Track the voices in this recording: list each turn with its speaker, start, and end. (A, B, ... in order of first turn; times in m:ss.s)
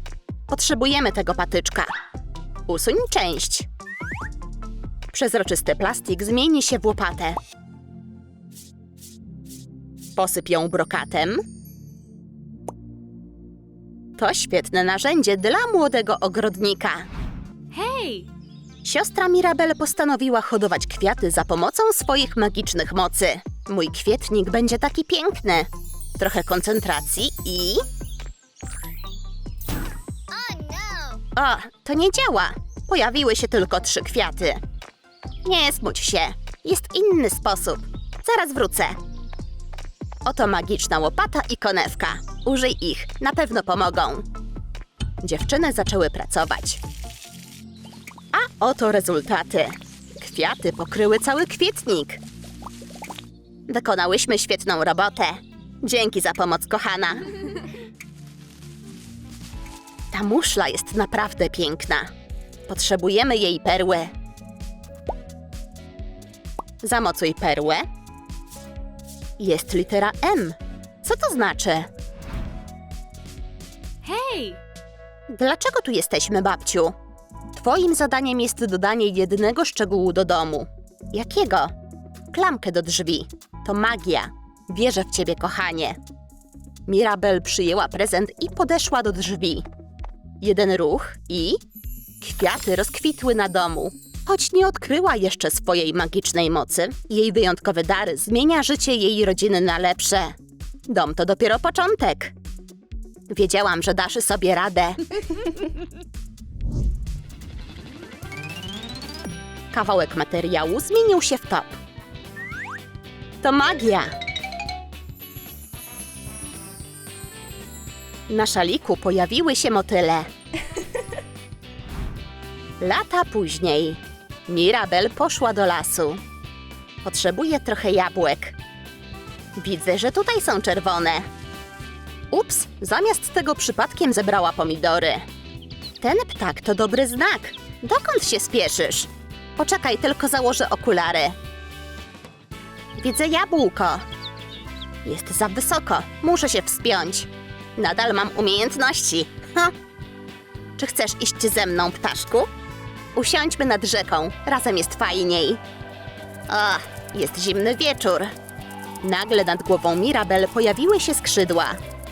0:00.5-0:01.9 A
0:02.6-0:03.7 A
0:05.1-0:07.4 A
0:10.2-0:11.4 A
0:14.2-0:17.1 A
0:17.7-0:18.3 B
0:18.8-0:27.8 A
0:30.3-0:31.1 B
0:31.2-0:34.6 A
0:35.4-0:39.0 A
0:40.2-0:44.3 A
0:45.2-0:46.8 A
0:48.3-0:52.2 A
0:53.7-0:57.3 A
1:00.1-1:02.1 A
1:02.7-1:04.1 A
1:06.8-1:07.8 A
1:09.4-1:11.9 A
1:14.0-1:14.6 B
1:15.3-1:16.9 A
1:17.5-1:21.7 A
1:22.3-1:26.0 A
1:26.9-1:29.6 A
1:30.4-1:31.6 A
1:32.2-1:40.3 A
1:40.9-1:42.3 A
1:43.3-1:45.4 A
1:49.7-1:51.8 A
1:53.4-1:54.1 A
1:58.3-2:00.3 A
2:02.8-2:06.2 A
2:07.0-2:08.6 A
2:09.6-2:11.3 A
2:12.3-2:15.2 A
2:16.0-2:21.4 A
2:23.0-2:24.0 A
2:25.0-2:29.7 A
2:30.8-2:32.5 A
2:33.1-2:35.6 A
2:36.5-2:38.3 A
2:39.0-2:41.8 A